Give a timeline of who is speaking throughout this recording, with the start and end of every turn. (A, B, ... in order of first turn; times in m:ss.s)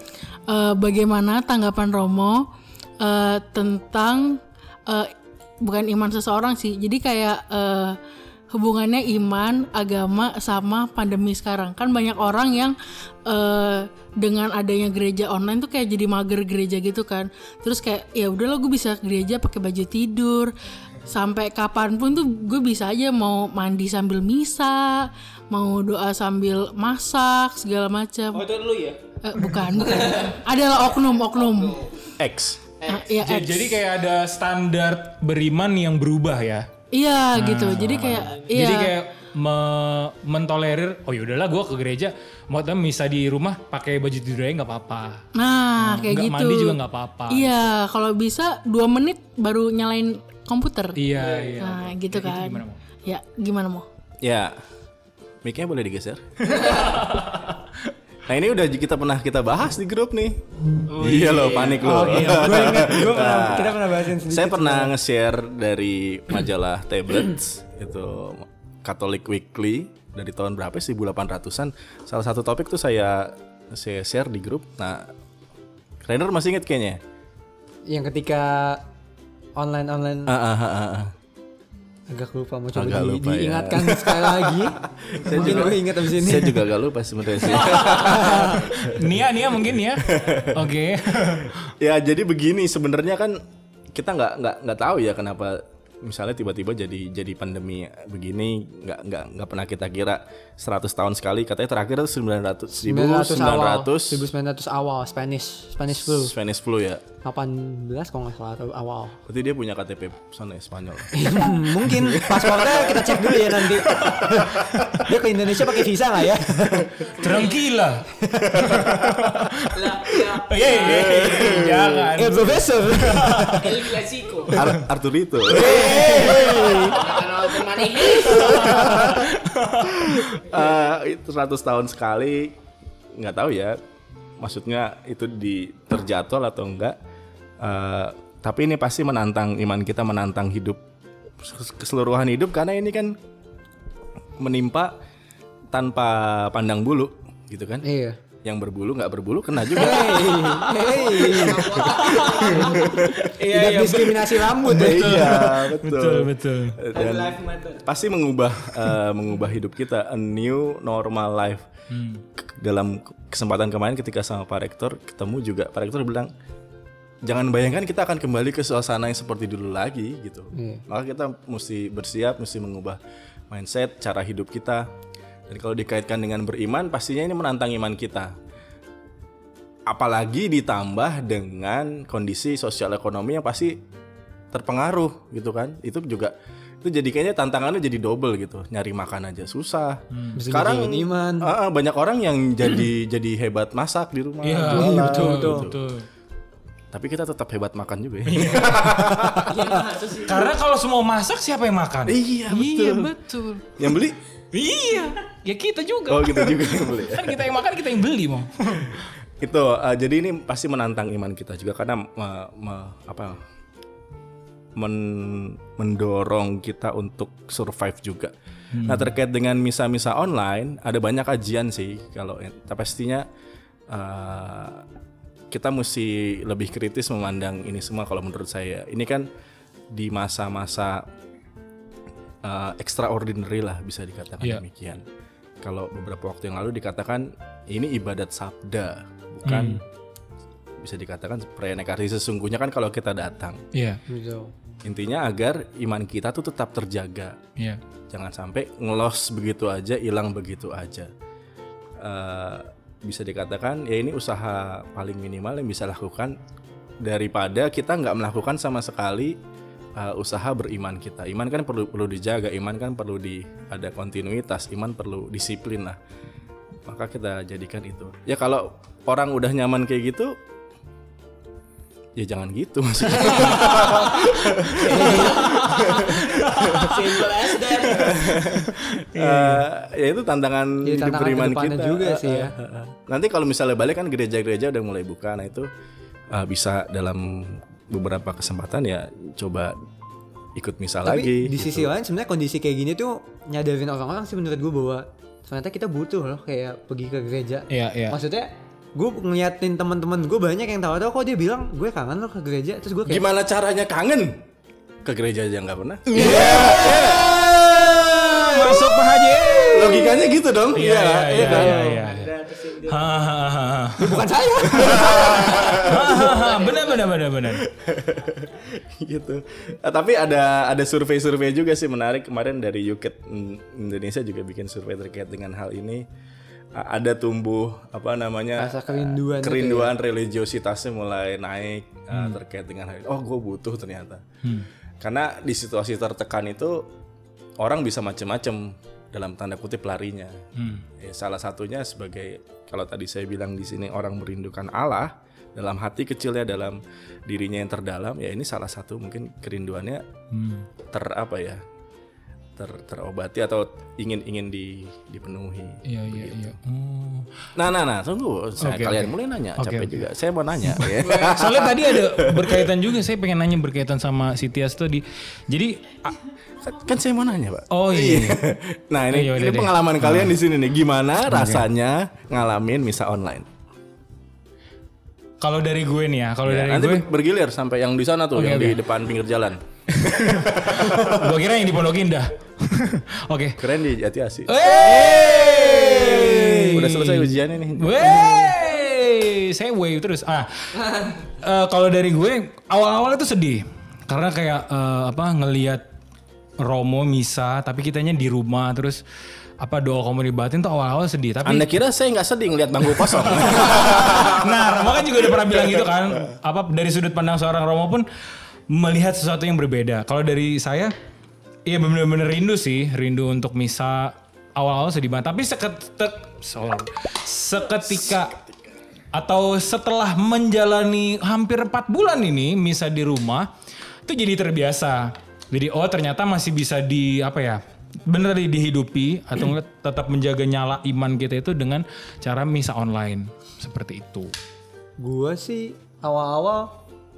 0:00.5-0:02.5 A
0:03.0-0:05.1 A
0:05.6-0:08.0 A
0:08.5-0:20.5 A
0:21.1-0:28.5 A
0:28.3-0:29.0 B
0:29.2-0:31.8 A
0:29.9-0:31.9 B
0:32.2-0:32.6 C
0:32.8-0:33.1 B
0:32.8-0:33.8 A
0:33.2-0:36.7 D
0:36.9-0:38.9 A
0:37.3-0:45.2 D
0:38.0-0:38.5 B
0:45.3-0:51.0 A
0:45.8-0:47.7 D
0:51.0-0:52.8 D
0:51.1-0:51.8 B
0:51.6-0:53.8 A
0:54.2-0:54.6 C
0:55.4-0:56.7 C
0:56.6-0:57.6 D
0:58.2-1:15.1 C
1:00.9-1:02.9 D
1:01.1-1:01.8 B
1:01.8-1:04.9 E
1:16.0-1:17.0 C
1:17.9-1:18.8 E
1:19.6-1:20.3 E
1:20.2-1:21.1 C
1:22.1-1:26.7 E
1:22.7-1:29.1 C
1:27.5-1:31.6 D
1:27.9-1:28.7 E
1:30.0-1:30.8 C
1:31.8-1:33.4 C
1:33.9-1:44.3 C
1:42.8-1:46.3 E
1:46.0-1:47.0 C
1:47.2-1:49.2 E
1:49.2-1:53.0 C
1:51.1-1:57.0 E
1:53.9-1:55.0 C
1:57.1-1:57.7 B
1:57.2-2:03.8 D
1:58.2-1:58.7 E
1:58.6-1:59.4 C
1:59.7-2:01.7 B
2:00.8-2:02.1 C
2:02.2-2:03.7 E
2:03.6-2:04.6 B
2:04.5-2:06.9 C
2:05.5-2:07.0 E
2:05.7-2:07.0 D
2:06.8-2:08.7 B
2:08.2-2:09.3 C
2:08.3-2:10.4 D
2:10.0-2:12.6 C
2:13.2-2:13.8 C
2:14.4-2:17.0 C
2:17.6-2:20.8 C
2:21.4-2:23.2 C
2:24.4-2:24.9 C
2:25.7-2:27.8 C
2:27.8-2:28.2 E
2:28.4-2:30.5 C
2:29.7-2:32.8 E
2:30.4-2:33.1 B
2:31.8-2:33.3 C
2:33.4-2:35.4 E
2:33.5-2:36.8 D
2:34.6-2:41.7 C
2:36.9-2:37.8 B
2:41.9-2:42.2 D
2:42.4-2:46.3 C
2:47.2-2:53.0 C
2:50.5-2:50.8 E
2:53.5-2:54.9 C
2:55.5-2:58.3 C
2:59.9-3:03.8 C
3:04.5-3:15.8 C
3:10.1-3:10.4 D
3:10.3-3:11.5 E
3:14.4-3:16.0 D
3:14.7-3:15.7 E
3:16.9-3:19.8 C
3:18.2-3:19.5 D
3:19.5-3:20.5 B
3:20.2-3:23.7 D
3:22.0-3:23.1 C
3:23.8-3:24.2 C
3:24.5-3:29.0 D
3:26.1-3:27.5 C
3:29.4-3:33.4 C
3:34.8-3:43.3 C
3:38.7-3:39.1 D
3:43.9-3:44.8 C
3:45.5-3:49.3 C
3:49.9-3:51.1 C
3:52.4-3:55.0 C
3:55.6-3:59.8 C
3:59.4-3:59.8 D
4:00.8-4:03.6 C
4:03.7-4:04.0 D
4:04.1-4:04.5 E
4:04.8-4:07.4 C
4:08.1-4:11.1 C
4:12.0-4:16.4 C
4:17.0-4:19.4 C
4:20.0-4:26.0 C
4:26.8-4:30.4 C
4:32.2-4:45.7 C
4:33.3-4:33.9 B
4:34.8-4:35.4 E
4:34.8-4:38.3 B
4:35.8-4:36.8 D
4:38.1-4:39.6 D
4:40.8-4:42.6 E
4:46.3-4:49.8 C
4:50.5-4:51.9 C
4:51.0-5:03.2 E
4:57.7-4:58.2 D
5:03.0-5:04.4 C
5:05.0-5:07.4 C
5:06.1-5:12.3 D
5:09.7-5:11.9 C
5:11.3-5:13.2 B
5:12.8-5:17.6 D
5:14.0-5:15.3 E
5:14.2-5:17.1 B
5:14.8-5:16.2 C
5:17.4-5:26.0 C
5:26.7-5:34.2 C
5:28.6-5:29.9 E
5:35.0-5:36.9 C
5:37.6-5:40.5 C
5:40.6-5:40.8 D
5:41.0-5:50.0 C
5:50.3-5:50.7 D
5:50.9-5:51.6 C
5:52.6-5:56.5 C
5:55.9-5:57.3 D
5:57.6-6:02.7 C
5:58.6-6:00.0 D
6:00.6-6:06.2 D
6:06.6-6:13.5 C
6:07.7-6:08.5 D
6:09.1-6:10.3 D
6:11.3-6:11.6 D
6:15.4-6:17.0 D
6:16.4-6:21.4 C
6:18.4-6:18.8 D
6:20.0-6:23.6 D
6:23.6-6:28.4 C
6:24.5-6:35.8 D
6:36.6-6:39.0 D
6:39.6-6:41.8 D
6:41.4-6:45.8 C
6:42.8-6:48.0 D
6:48.7-6:50.9 D
6:51.7-6:58.4 D
6:57.8-6:58.3 C
6:59.1-7:03.5 D
7:04.0-7:14.3 D
7:15.0-7:16.8 E